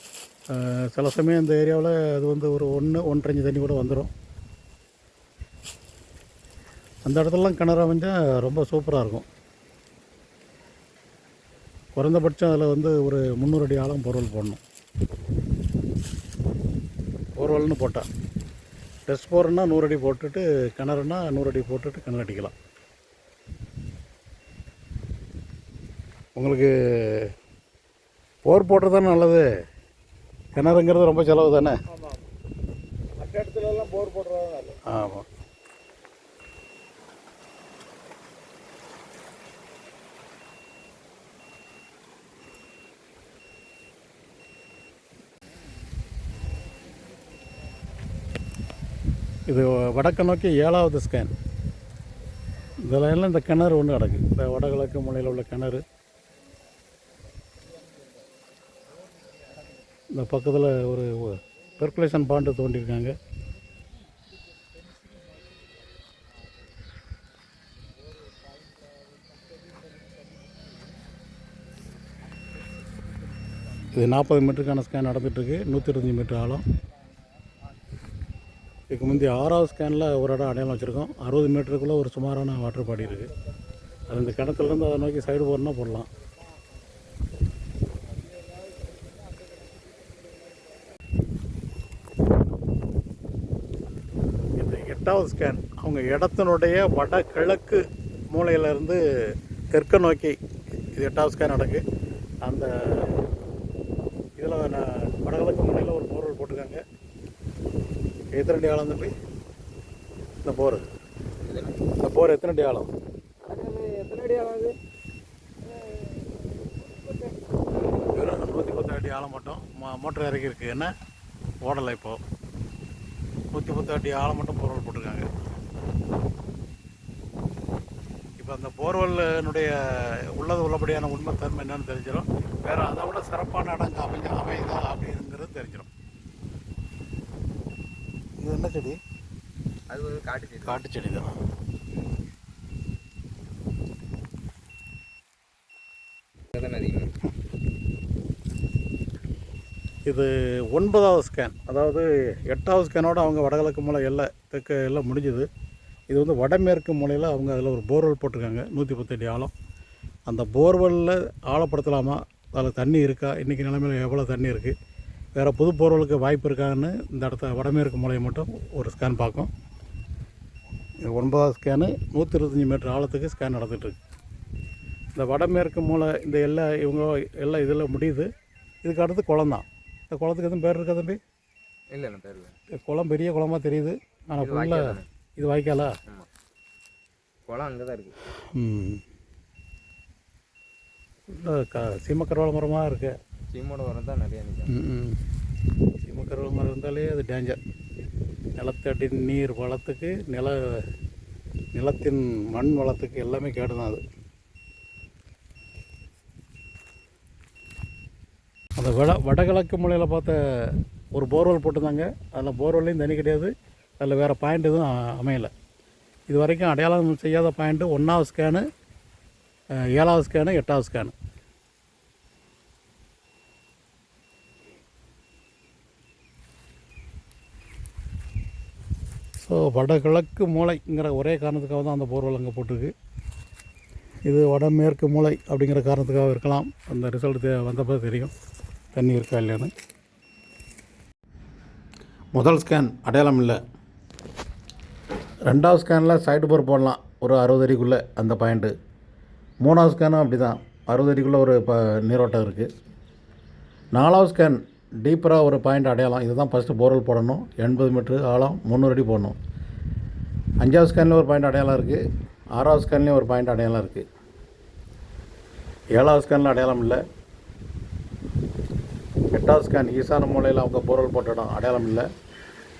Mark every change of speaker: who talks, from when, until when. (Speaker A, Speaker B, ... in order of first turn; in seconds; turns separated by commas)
Speaker A: 0.5-4.1, Speaker A: 7.0-9.2, Speaker A: 11.9-14.6, Speaker A: 17.4-18.1, Speaker A: 19.1-22.5, Speaker A: 26.4-27.3, Speaker A: 28.4-29.4, Speaker A: 30.5-31.7, Speaker B: 31.9-32.2, Speaker B: 33.2-34.8, Speaker A: 34.9-35.2, Speaker A: 49.5-51.3, Speaker A: 52.8-55.8, Speaker B: 57.7-58.2, Speaker B: 59.1-59.7, Speaker A: 60.1-63.1, Speaker B: 64.8-65.5, Speaker B: 68.1-70.9, Speaker B: 72.5-73.9, Speaker A: 73.9-76.6, Speaker A: 78.9-83.3, Speaker A: 84.1-86.1, Speaker B: 86.4-86.7, Speaker B: 88.1-90.9, Speaker A: 94.6-99.0, Speaker A: 99.7-100.3, Speaker A: 100.9-101.8, Speaker A: 102.4-103.2, Speaker A: 104.4-106.8, Speaker A: 108.3-109.1, Speaker A: 110.4-110.8, Speaker C: 111.5-111.7, Speaker A: 112.0-112.9, Speaker B: 113.5-114.7, Speaker B: 115.6-117.4, Speaker A: 118.1-120.9, Speaker A: 121.6-122.2, Speaker A: 123.5-125.2, Speaker A: 128.4-135.9, Speaker A: 138.4-139.0, Speaker C: 139.9-140.8, Speaker A: 140.6-141.3, Speaker C: 146.5-147.1, Speaker A: 150.1-155.5, Speaker A: 156.1-159.5, Speaker A: 160.3-164.7, Speaker A: 165.3-169.5, Speaker A: 171.1-174.0, Speaker A: 175.1-178.3, Speaker A: 178.8-181.2, Speaker C: 181.9-182.5, Speaker A: 182.7-185.9, Speaker C: 184.4-185.1, Speaker C: 187.5-188.2, Speaker A: 188.4-189.0, Speaker A: 191.3-193.1, Speaker C: 193.5-194.8, Speaker A: 194.7-195.2, Speaker A: 196.0-197.6, Speaker A: 198.6-200.8, Speaker A: 201.7-204.0, Speaker A: 208.8-210.3, Speaker A: 211.1-215.5, Speaker A: 216.3-218.6, Speaker A: 219.9-221.1, Speaker A: 229.4-232.9, Speaker A: 234.2-238.3, Speaker A: 238.9-239.7, Speaker A: 242.3-243.6, Speaker A: 245.5-248.7, Speaker A: 249.6-252.7, Speaker A: 253.9-259.4, Speaker A: 260.6-262.0, Speaker A: 262.6-264.0, Speaker A: 265.9-267.0, Speaker A: 269.3-272.1